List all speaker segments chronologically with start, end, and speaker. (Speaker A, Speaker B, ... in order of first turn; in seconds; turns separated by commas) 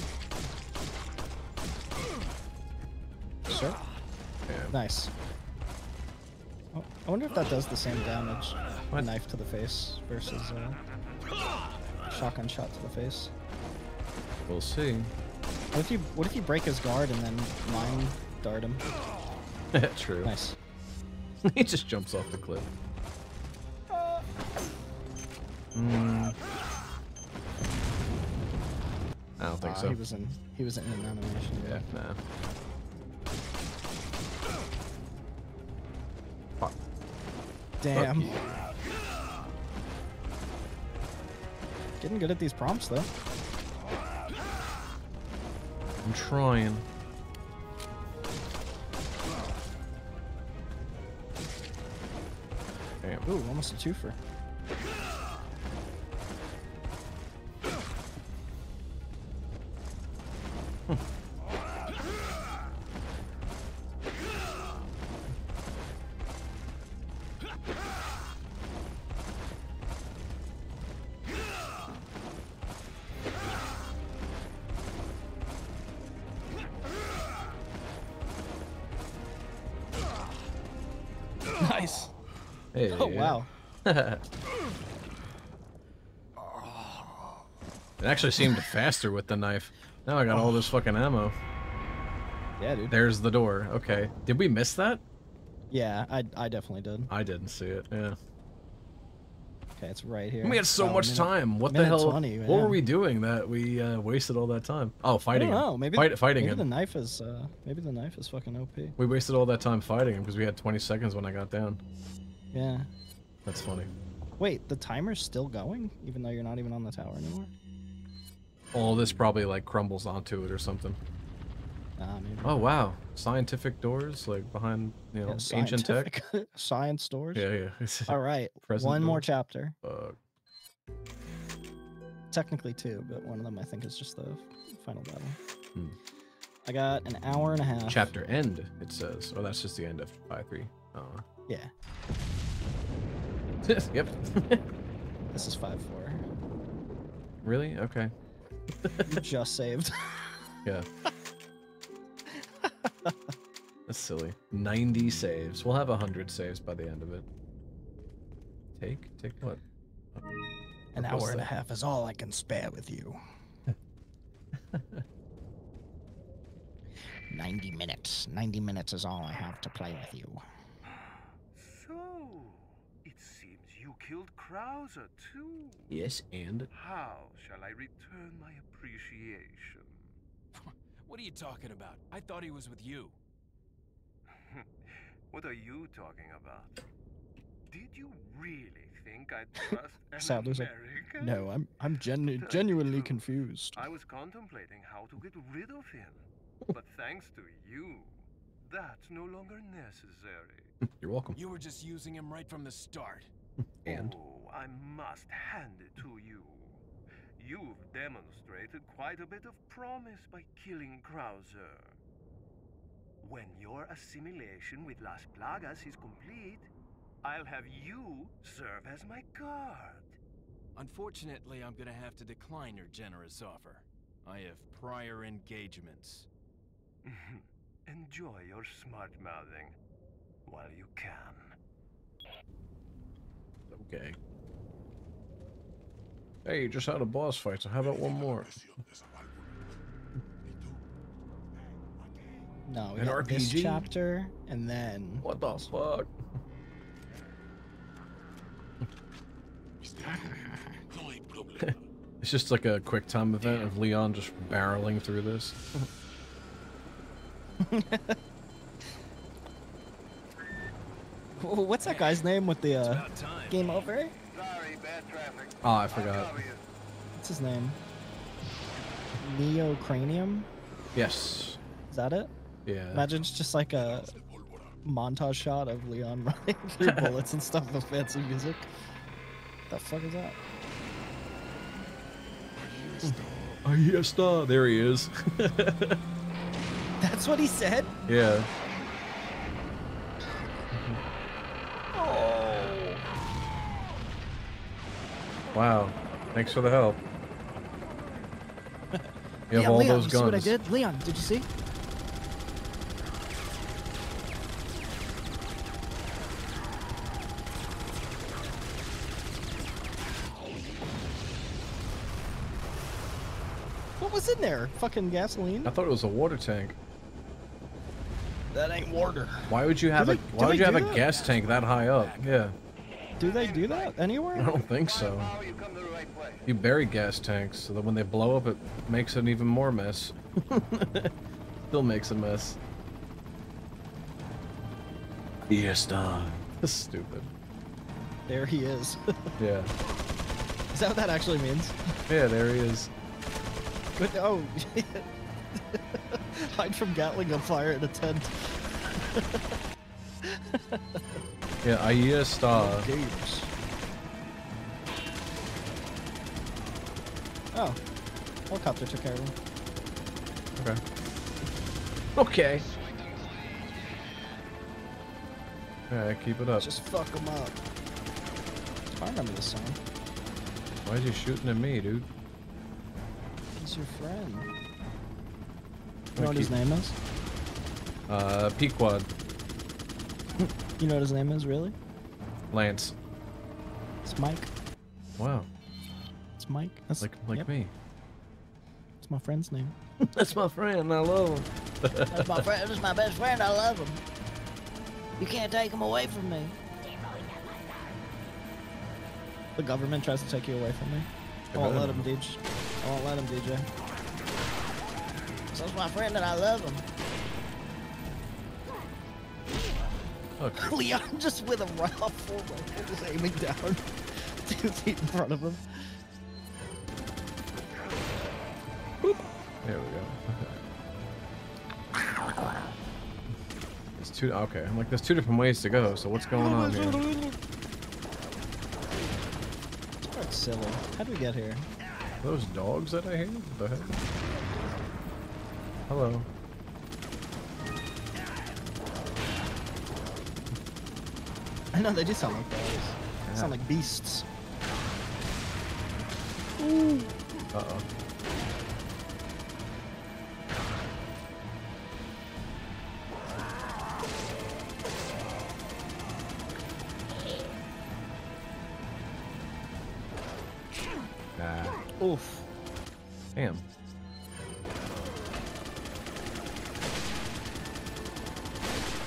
Speaker A: 3.5-3.8, Speaker B: 4.5-4.7, Speaker A: 4.7-5.1, Speaker A: 6.7-10.8, Speaker A: 12.1-13.3, Speaker B: 14.4-15.1, Speaker A: 15.7-18.8, Speaker B: 19.7-20.3, Speaker A: 20.2-20.5, Speaker B: 21.4-22.7, Speaker B: 25.7-26.4, Speaker B: 29.4-30.0, Speaker A: 29.6-31.8, Speaker B: 31.6-32.2, Speaker A: 37.8-38.3, Speaker B: 37.9-38.6, Speaker A: 42.0-43.1, Speaker B: 46.0-46.9, Speaker B: 53.0-53.3, Speaker A: 53.2-54.2, Speaker A: 81.6-82.1, Speaker B: 82.7-84.2, Speaker A: 82.9-83.5, Speaker B: 88.0-91.4, Speaker A: 92.6-93.0, Speaker B: 92.9-95.0, Speaker A: 95.7-97.1, Speaker B: 97.1-98.2, Speaker A: 99.8-102.8, Speaker B: 100.4-106.7, Speaker A: 105.3-109.0, Speaker B: 109.0-111.8, Speaker A: 112.5-112.9, Speaker B: 113.4-113.9, Speaker A: 114.4-117.5, Speaker B: 118.7-121.0, Speaker A: 122.0-122.7, Speaker B: 122.4-126.1, Speaker A: 125.2-127.5, Speaker B: 127.3-129.3, Speaker A: 128.1-129.7, Speaker B: 129.8-130.2, Speaker A: 132.3-135.4, Speaker A: 136.7-138.1, Speaker B: 137.9-141.2, Speaker B: 143.6-144.6, Speaker A: 145.3-146.2, Speaker B: 147.4-148.1, Speaker B: 148.8-149.2, Speaker A: 149.1-150.6, Speaker A: 152.3-153.2, Speaker B: 153.9-157.2, Speaker B: 158.8-159.6, Speaker B: 160.9-161.5, Speaker A: 160.9-163.2, Speaker B: 164.7-165.0, Speaker A: 167.3-170.4, Speaker C: 170.9-175.9, Speaker B: 175.9-176.7, Speaker C: 176.7-180.1, Speaker D: 180.6-183.2, Speaker C: 184.3-186.8, Speaker C: 187.7-191.5, Speaker A: 189.6-193.8, Speaker C: 192.3-193.2, Speaker C: 193.7-200.7, Speaker B: 200.8-201.4, Speaker D: 201.3-203.3, Speaker B: 203.8-204.1, Speaker C: 203.8-206.8, Speaker C: 207.4-212.0, Speaker C: 213.2-216.7, Speaker C: 217.2-220.2, Speaker D: 220.7-226.3, Speaker C: 227.0-229.8, Speaker C: 230.4-231.5, Speaker B: 233.7-234.2, Speaker B: 236.4-238.7, Speaker A: 242.7-245.3, Speaker B: 243.0-243.9, Speaker B: 245.2-246.1, Speaker B: 251.6-255.8, Speaker A: 257.6-258.2, Speaker A: 261.4-264.1, Speaker D: 261.8-262.2, Speaker D: 262.8-263.6, Speaker C: 264.3-266.6, Speaker B: 265.6-266.4, Speaker A: 267.1-267.8, Speaker A: 269.2-270.5, Speaker B: 270.9-271.6, Speaker A: 271.9-272.3, Speaker B: 272.6-273.1, Speaker A: 272.9-274.2, Speaker A: 274.8-278.7, Speaker B: 276.8-277.1, Speaker A: 279.7-280.4, Speaker B: 283.0-286.0, Speaker A: 287.0-287.9, Speaker B: 288.1-288.5, Speaker A: 291.9-293.0, Speaker B: 295.5-297.0, Speaker A: 298.9-301.5, Speaker B: 299.5-300.5, Speaker A: 314.0-315.7, Speaker B: 315.6-316.8, Speaker A: 318.5-321.0, Speaker B: 319.5-322.6, Speaker D: 320.6-322.4, Speaker A: 323.2-324.6, Speaker B: 324.4-325.4, Speaker C: 325.4-326.4, Speaker B: 326.4-331.1, Speaker B: 331.7-332.6, Speaker B: 335.5-337.3, Speaker A: 338.3-339.0, Speaker B: 339.4-339.7, Speaker A: 340.7-341.8, Speaker B: 342.1-342.9, Speaker A: 344.0-349.5, Speaker A: 350.2-351.0, Speaker B: 351.6-352.9, Speaker A: 352.5-353.5, Speaker A: 357.5-357.8, Speaker A: 358.5-359.3, Speaker B: 360.6-360.8, Speaker B: 362.1-362.7, Speaker B: 365.9-366.7, Speaker A: 366.6-367.6, Speaker A: 368.9-369.8, Speaker B: 370.8-372.1, Speaker A: 373.6-374.5, Speaker B: 376.1-376.6, Speaker A: 376.1-376.9, Speaker B: 378.1-379.1, Speaker A: 380.4-381.8, Speaker B: 382.5-382.9, Speaker A: 384.0-384.5, Speaker B: 385.2-385.5, Speaker A: 386.4-387.5, Speaker B: 387.0-387.7, Speaker A: 389.0-389.7, Speaker B: 390.0-392.4, Speaker A: 392.1-394.0, Speaker A: 395.2-396.6, Speaker A: 399.6-403.7, Speaker B: 401.5-402.1, Speaker A: 405.5-406.8, Speaker B: 410.4-410.8, Speaker A: 410.6-416.0, Speaker B: 419.6-420.6, Speaker B: 424.0-427.0, Speaker A: 426.4-427.4, Speaker A: 430.0-431.7, Speaker B: 432.2-434.0, Speaker B: 435.9-436.3, Speaker A: 441.7-444.2, Speaker B: 443.2-443.5, Speaker A: 446.6-447.1, Speaker B: 447.5-447.9, Speaker B: 461.4-461.8, Speaker A: 462.0-462.4, Speaker B: 463.3-463.6